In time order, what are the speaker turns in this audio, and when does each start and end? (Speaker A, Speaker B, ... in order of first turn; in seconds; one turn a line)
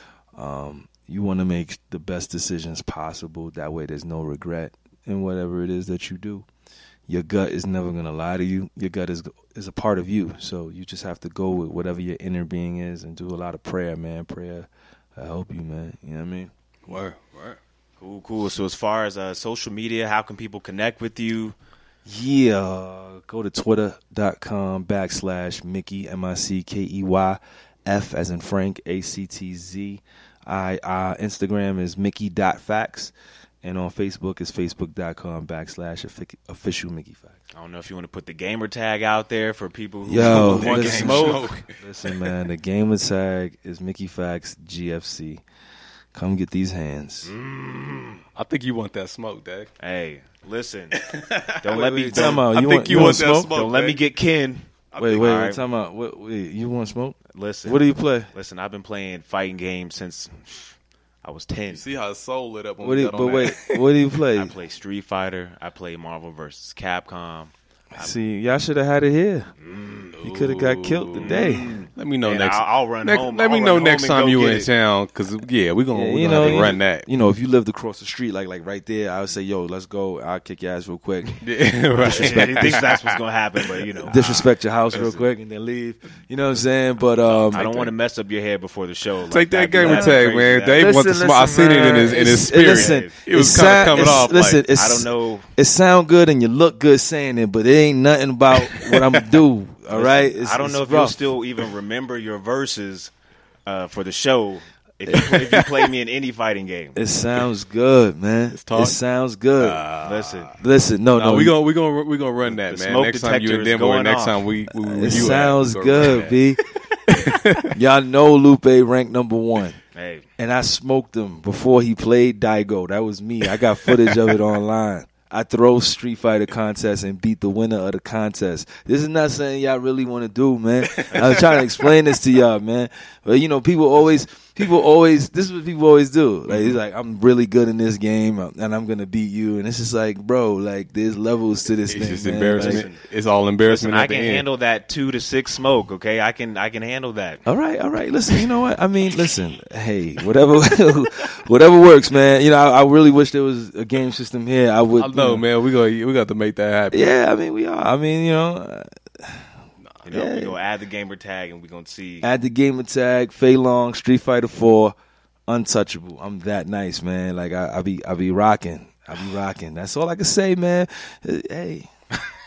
Speaker A: 0.3-6.5
Speaker A: 7.1-16.5
Speaker B: 16.9-17.6
Speaker C: 18.0-21.6
Speaker A: 22.1-37.4
Speaker C: 37.5-41.5
Speaker A: 40.1-45.4
Speaker B: 40.2-42.3
Speaker A: 46.1-47.3
Speaker C: 47.2-48.2
Speaker B: 48.4-49.7
Speaker C: 49.8-51.0
Speaker B: 50.9-54.0
Speaker C: 51.6-55.6
Speaker A: 51.7-53.5
Speaker B: 54.9-55.3
Speaker A: 55.0-58.3
Speaker C: 57.3-60.7
Speaker C: 61.2-61.8
Speaker B: 61.7-63.7
Speaker A: 62.8-64.5
Speaker C: 64.3-68.2
Speaker A: 67.9-69.5
Speaker C: 69.6-70.1
Speaker B: 70.2-77.1
Speaker A: 70.2-71.7
Speaker C: 71.2-74.7
Speaker A: 75.9-81.4
Speaker B: 81.4-83.1
Speaker C: 82.1-85.2
Speaker A: 82.1-82.8
Speaker A: 84.0-87.7
Speaker B: 87.3-87.9
Speaker C: 87.5-95.5
Speaker B: 89.3-94.7
Speaker A: 89.8-101.3
Speaker B: 98.7-99.2
Speaker C: 99.9-103.1
Speaker C: 103.7-107.0
Speaker B: 105.2-105.5
Speaker A: 107.0-109.9
Speaker B: 108.5-109.0
Speaker B: 109.6-110.6
Speaker C: 110.0-110.6
Speaker A: 110.6-111.5
Speaker B: 111.1-117.7
Speaker C: 112.5-114.5
Speaker A: 114.7-116.6
Speaker A: 117.7-119.8
Speaker C: 119.9-120.3
Speaker A: 120.4-142.9
Speaker B: 130.8-131.4
Speaker C: 131.1-131.5
Speaker B: 136.5-136.8
Speaker B: 141.9-144.4
Speaker C: 142.6-143.0
Speaker C: 143.6-147.4
Speaker A: 147.5-155.4
Speaker B: 155.0-157.1
Speaker A: 156.9-159.5
Speaker C: 160.1-162.3
Speaker A: 160.1-160.6
Speaker A: 162.2-164.9
Speaker A: 165.5-171.9